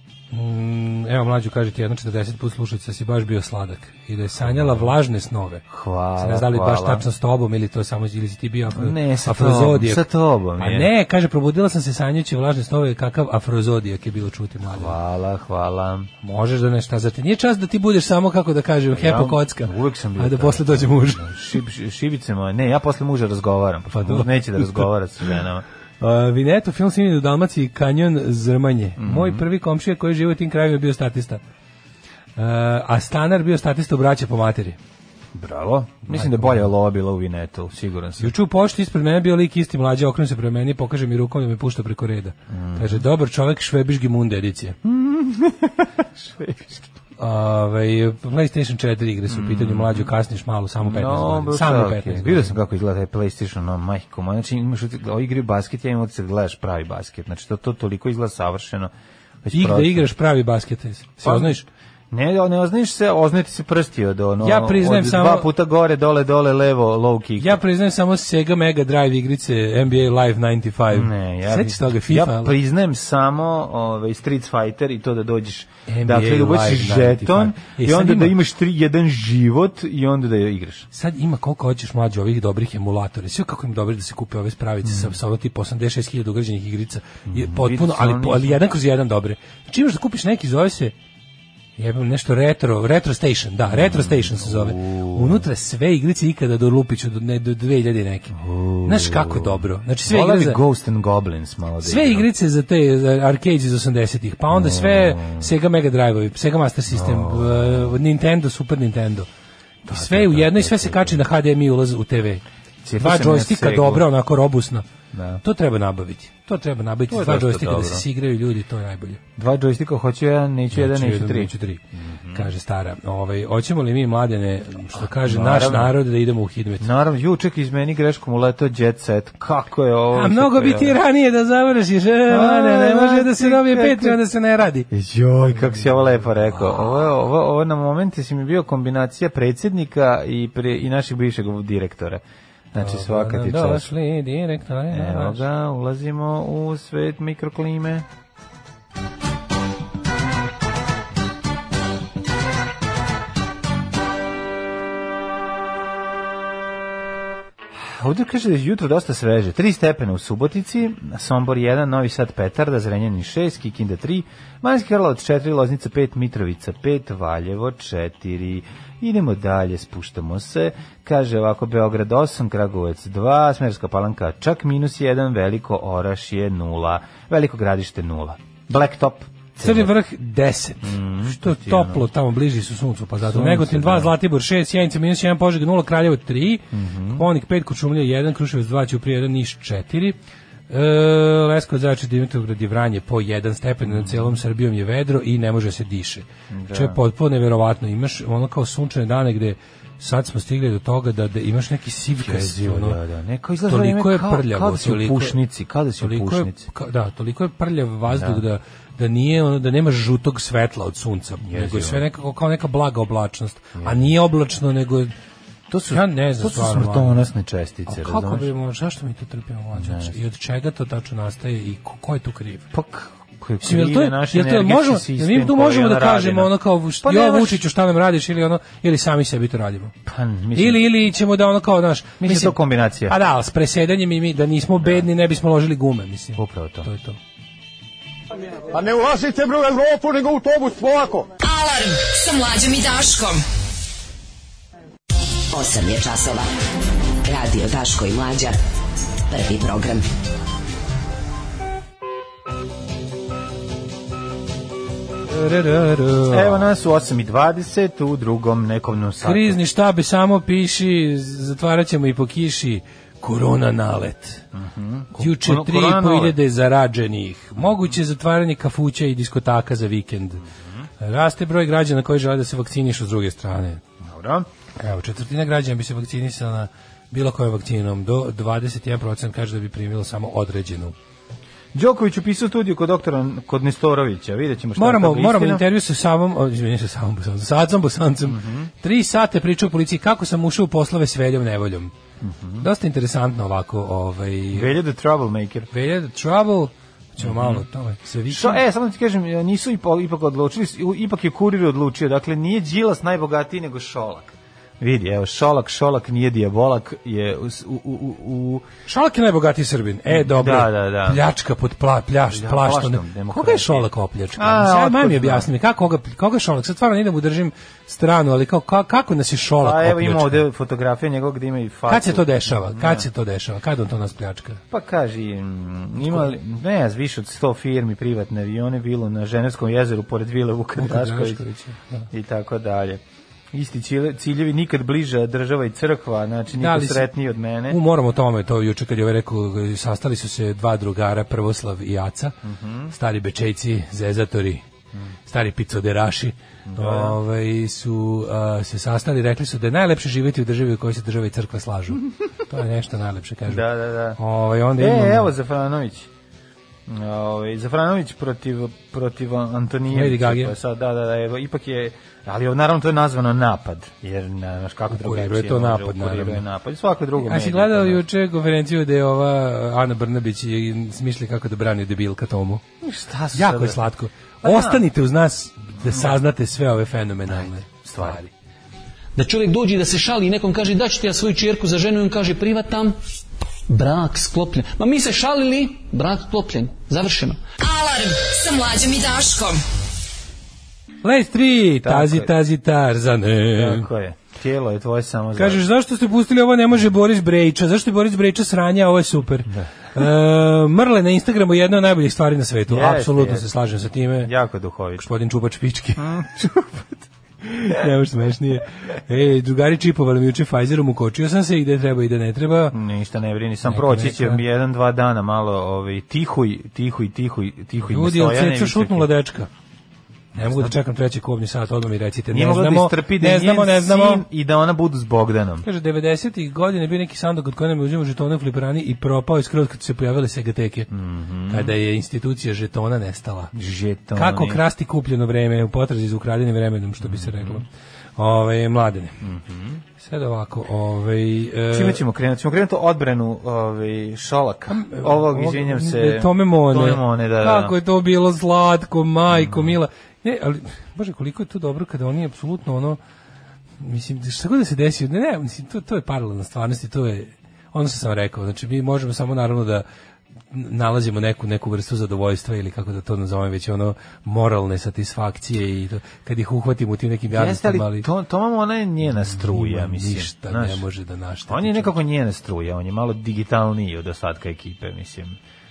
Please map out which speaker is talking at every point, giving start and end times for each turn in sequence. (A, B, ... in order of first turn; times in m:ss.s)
0:00.3-0:05.6 A
0:04.4-0:04.9 B
0:05.7-0:07.0 B
0:06.2-0:10.1 A
0:08.7-0:10.9 B
0:10.6-0:15.0 A
0:14.7-0:16.1 B
0:16.2-0:21.3 A
0:18.9-0:25.6 B
0:23.9-0:24.9 A
0:26.0-0:31.4 A
0:29.0-0:29.4 B
0:32.4-0:34.8 A
0:35.3-0:38.3 B
0:36.1-0:36.6 A
0:38.2-0:44.8 A
0:42.5-0:43.0 B
0:44.8-0:46.9 B
0:47.2-0:52.6 A
0:49.3-0:50.1 B
0:50.8-0:58.9 B
0:59.4-1:00.1 B
0:59.5-1:01.7 A
1:01.2-1:01.6 B
1:02.1-1:07.6 B
1:04.4-1:05.5 A
1:07.4-1:12.5 A
1:10.9-1:20.9 B
1:15.9-1:18.4 A
1:20.9-1:30.9 A
1:24.8-1:25.1 B
1:27.3-1:28.6 B
1:31.8-1:40.6 A
1:33.7-1:35.4 B
1:38.3-1:42.3 B
1:41.8-1:49.3 A
1:44.5-1:45.5 B
1:46.9-1:48.0 B
1:49.8-1:52.4 A
1:49.9-1:51.3 B
1:52.8-1:54.1 B
1:53.0-1:54.9 A
1:55.1-1:55.4 B
1:55.4-1:59.2 A
1:57.1-1:58.1 B
1:59.4-2:02.5 B
2:00.7-2:01.8 A
2:02.3-2:06.9 A
2:05.0-2:06.0 B
2:06.8-2:11.0 B
2:10.1-2:14.9 A
2:12.3-2:14.2 B
2:14.9-2:23.9 B
2:22.8-2:25.4 A
2:24.9-2:28.1 B
2:37.9-2:59.9 B
2:59.6-3:10.2 A
3:00.8-3:02.1 B
3:03.2-3:04.1 B
3:06.7-3:07.3 B
3:10.7-3:23.0 A
3:13.9-3:14.2 B
3:16.5-3:17.0 B
3:22.2-3:26.6 B
3:23.7-3:25.4 A
3:26.0-3:35.1 A
3:28.1-3:28.4 B
3:31.4-3:32.0 B
3:33.8-3:34.1 B
3:35.7-3:38.5 B
3:35.9-3:37.2 A
3:37.9-3:42.7 A
3:39.8-3:40.2 B
3:42.7-3:47.6 B
3:43.6-3:49.9 A
3:50.0-3:50.8 B
3:50.6-3:52.6 A
3:52.2-3:53.2 B
3:53.1-3:57.2 A
3:54.8-3:55.1 B
3:56.4-3:56.9 B
3:58.7-4:01.3 C
4:01.4-4:03.4 D
4:05.5-4:06.5 E
4:07.2-4:08.6 E
4:09.3-4:10.0 E
4:15.3-4:16.7 A
4:16.3-4:19.6 B
4:19.2-4:24.5 A
4:24.5-4:26.4 B
4:25.2-4:30.4 A
4:30.5-4:30.9 B
4:31.0-4:33.8 A
4:34.0-4:34.5 B
4:34.8-4:41.0 A
4:41.7-4:45.6 B
4:44.8-4:51.9 A
4:48.3-4:48.7 B
4:52.2-4:52.7 B
4:52.6-4:54.8 A
4:54.5-4:55.7 B
4:55.7-4:58.6 A
4:57.2-4:57.6 B
4:58.3-5:08.7 B
5:08.9-5:20.4 A
5:10.1-5:11.2 B
5:12.3-5:15.5 B
5:19.6-5:23.1 B
5:21.9-5:24.6 A
5:24.7-5:31.4 B
5:26.0-5:26.3 A
5:30.8-5:32.1 A
5:32.1-5:37.8 B
5:36.6-5:37.1 A
5:37.7-5:42.4 A
5:42.4-5:42.9 B
5:42.9-5:44.6 A
5:45.3-5:55.3 A
5:46.7-5:47.2 B
5:53.5-5:54.2 B
5:54.8-5:56.1 B
5:56.9-6:08.0 B
5:59.9-6:00.6 A
6:04.9-6:06.4 A
6:07.2-6:12.6 A
6:12.8-6:13.8 B
6:13.3-6:18.3 A
6:14.4-6:14.9 B
6:15.8-6:16.2 B
6:17.3-6:18.2 B
6:19.2-6:23.0 F
6:23.7-6:27.4 F
6:27.6-6:29.6 D
6:31.0-6:33.9 A
6:31.8-6:32.3 B
6:33.5-6:35.6 B
6:35.4-6:44.3 A
6:42.7-6:43.5 B
6:44.2-6:45.0 B
6:45.0-6:46.7 A
6:46.0-6:46.6 B
6:47.4-6:52.8 A
6:52.7-6:59.1 B
6:53.7-6:54.4 A
6:57.8-6:59.5 A
7:00.4-7:00.8 B
7:00.4-7:04.2 A
7:02.3-7:05.7 B
7:05.6-7:10.9 A
7:10.9-7:11.7 B
7:11.5-7:13.5 A
7:13.5-7:14.6 B
7:14.1-7:17.7 A
7:17.0-7:17.6 B
7:18.2-7:19.2 A
7:19.2-7:19.8 B
7:20.0-7:22.0 A
7:21.7-7:27.8 B
7:24.7-7:33.0 A
7:29.3-7:29.7 B
7:33.8-7:39.9 A
7:40.5-7:48.1 A
7:47.3-7:50.8 B
7:49.4-7:52.0 A
7:51.5-7:55.4 B